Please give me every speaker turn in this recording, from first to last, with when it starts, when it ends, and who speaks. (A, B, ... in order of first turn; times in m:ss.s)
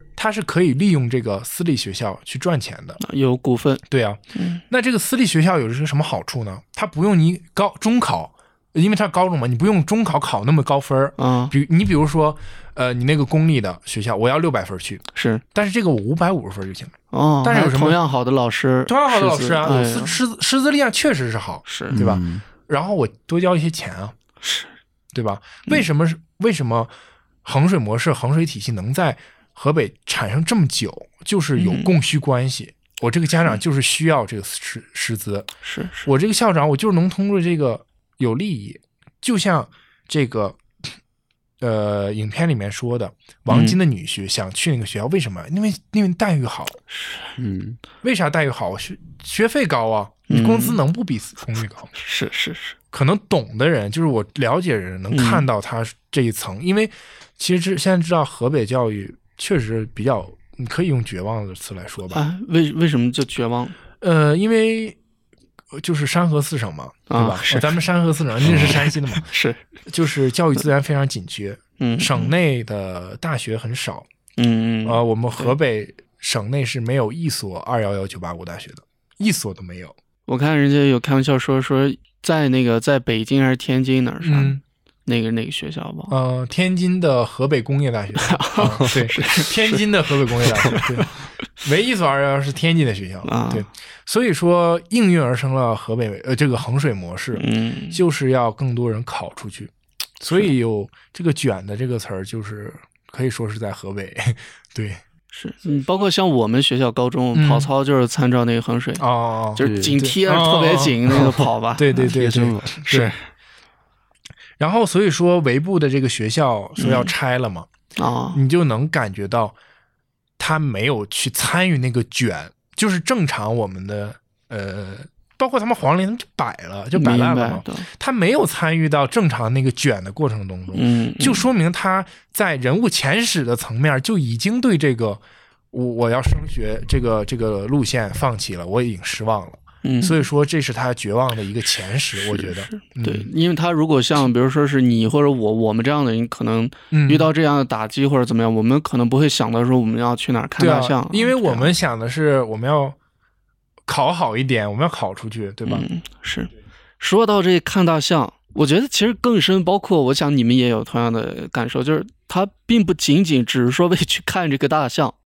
0:00.2-0:03.0 A
0:03.0-0:03.8 B
0:03.9-0:18.0 A
0:04.3-0:04.6 B
0:11.2-0:11.5 B
0:15.1-0:15.4 B
0:17.1-0:20.2 B
0:18.9-0:24.1 A
0:21.6-0:22.0 B
0:21.9-0:22.4 C
0:24.4-0:24.7 B
0:25.1-0:26.9 A
0:27.4-0:35.5 A
0:31.6-0:31.9 B
0:35.6-0:36.1 B
0:36.0-0:40.9 A
0:41.6-0:46.8 A
0:43.5-0:43.8 B
0:46.9-0:47.3 B
0:47.4-0:47.8 C
0:48.0-0:51.9 A
0:50.3-0:50.8 B
0:52.0-0:52.8 B
0:52.9-1:02.2 A
0:55.1-0:55.4 B
1:02.1-1:03.8 B
1:04.0-1:05.0 A
1:05.7-1:09.3 A
1:07.1-1:07.8 B
1:08.4-1:08.8 C
1:08.5-1:09.6 B
1:09.8-1:14.1 A
1:11.8-1:12.3 B
1:14.4-1:15.5 B
1:14.8-1:19.9 A
1:20.3-1:26.1 B
1:24.2-1:24.6 A
1:26.1-1:45.0 A
1:28.2-1:31.1 B
1:33.2-1:33.7 B
1:37.3-1:38.0 B
1:45.3-1:52.1 B
1:47.3-1:47.7 A
1:49.0-1:53.1 A
1:49.6-1:49.9 C
1:52.1-1:52.8 C
1:52.7-1:53.3 B
1:54.6-1:57.7 A
1:56.8-1:57.1 B
1:58.0-1:58.4 B
1:58.3-1:59.5 A
2:00.4-2:23.3 A
2:07.0-2:07.9 B
2:10.7-2:11.5 B
2:19.8-2:20.2 B
2:22.2-2:31.7 B
2:26.9-2:27.3 A
2:30.6-2:33.0 A
2:33.9-2:35.9 A
2:35.6-2:45.1 B